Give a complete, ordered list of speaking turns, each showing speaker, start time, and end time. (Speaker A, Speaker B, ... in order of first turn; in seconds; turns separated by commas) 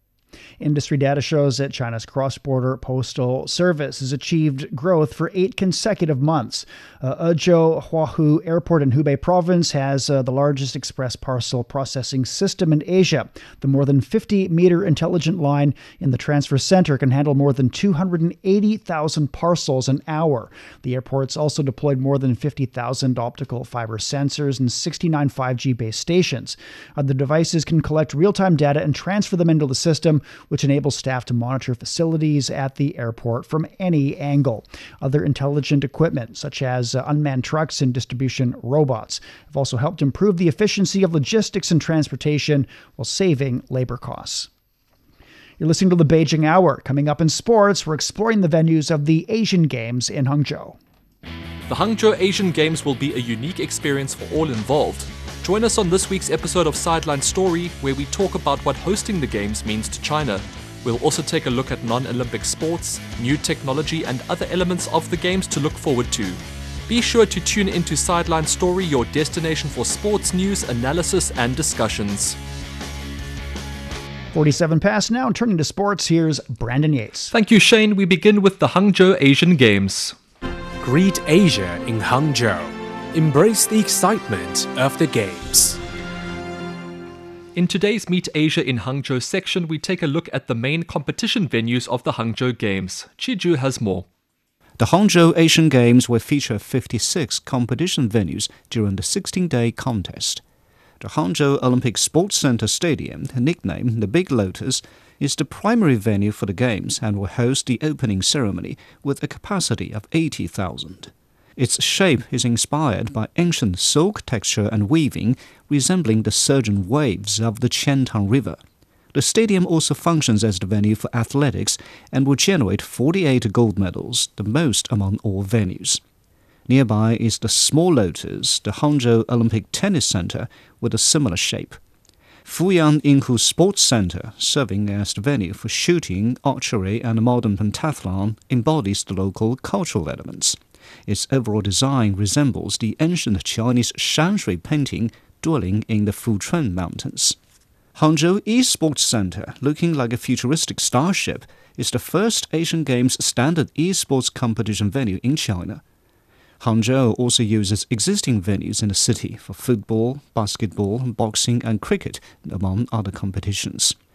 Speaker A: 0.6-44.5, Speaker A: 45.6-50.8, Speaker B: 51.7-72.3, Speaker A: 74.3-77.3, Speaker B: 77.3-80.1, Speaker C: 81.0-82.4, Speaker C: 83.4-85.0, Speaker B: 87.5-94.0, Speaker D: 94.8-100.4, Speaker D: 101.0-118.6, Speaker D: 119.1-126.0, Speaker D: 126.7-131.8, Speaker D: 132.4-147.3, Speaker D: 147.9-155.8, Speaker D: 156.6-163.9